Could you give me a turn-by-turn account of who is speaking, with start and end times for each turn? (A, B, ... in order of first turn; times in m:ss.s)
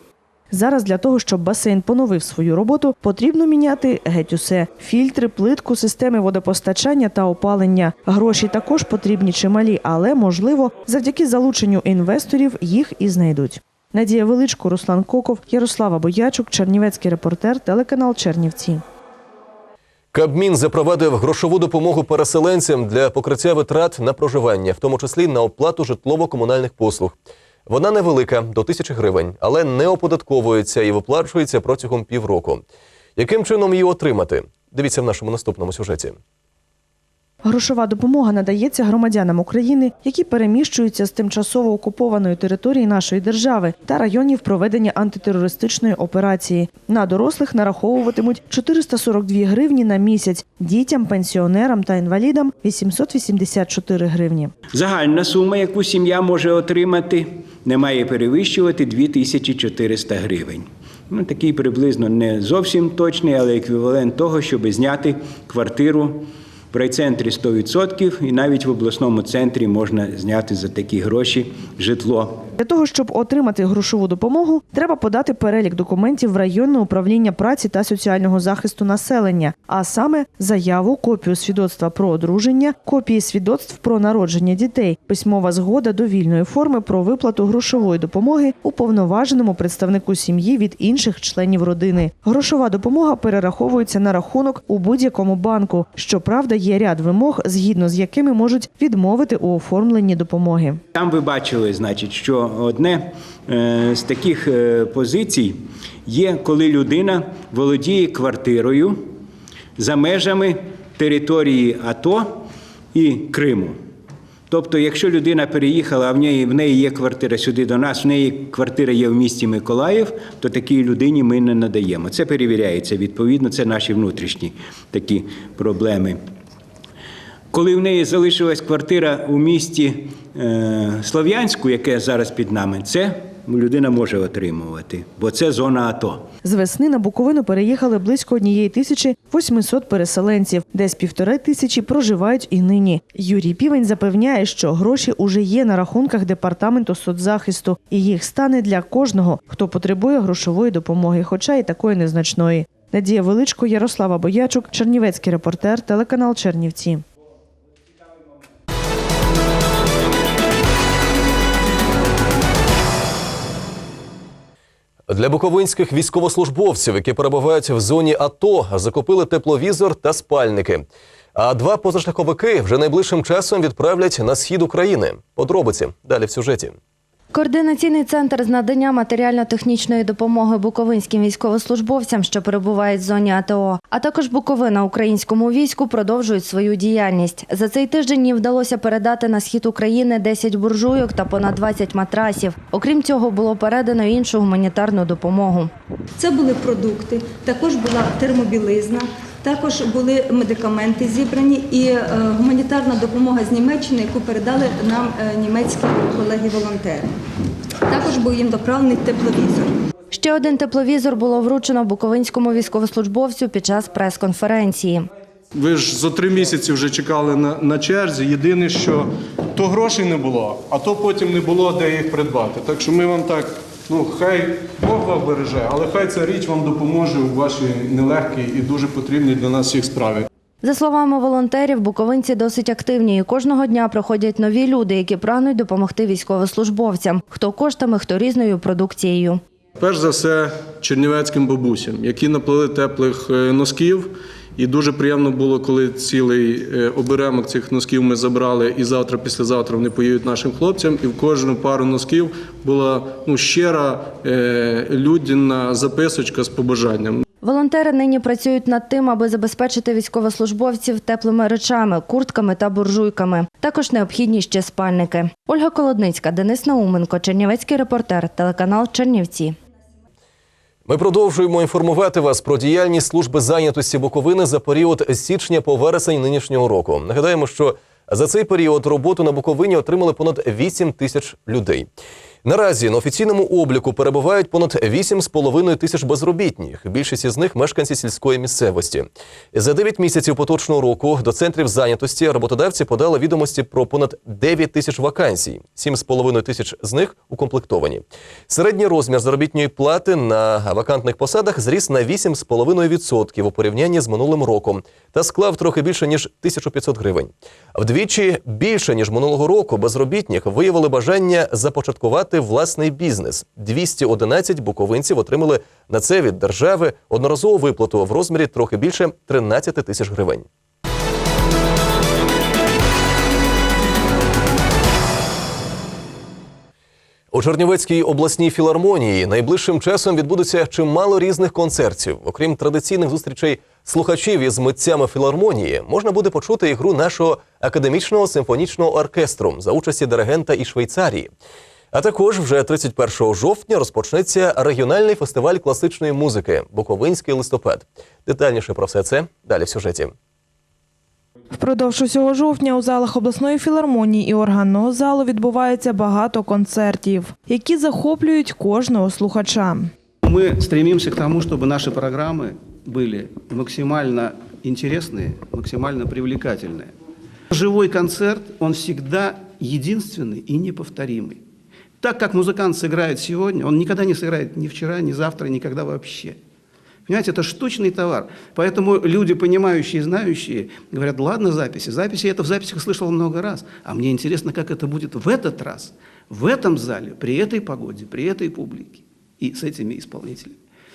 0:00.5-0:18.8 A
0:20.1-0:27.2 B
0:27.7-0:32.6 B
0:33.2-0:36.2 B
0:37.4-0:54.5 A
0:54.7-1:12.5 C
1:12.6-1:40.8 A
1:41.0-1:49.1 C
1:49.8-1:53.8 C
1:54.5-2:06.2 C
2:07.5-2:16.3 C
2:16.4-2:37.0 A
2:45.1-2:56.8 B
2:57.3-3:15.7 D
3:16.2-3:27.1 E
3:27.9-3:29.7 E
3:30.1-3:35.1 D
3:35.6-3:50.3 F
3:50.6-3:59.4 D
3:59.8-4:17.2 F
4:17.4-4:29.6 D
4:30.9-4:41.9 B
4:42.4-5:20.5 B
5:27.3-5:41.3 B
5:41.9-5:50.1 B
5:51.6-5:59.8 G
6:00.2-6:06.9 H
6:07.5-6:11.4 H
6:12.0-6:16.4 H
6:17.1-6:30.5 H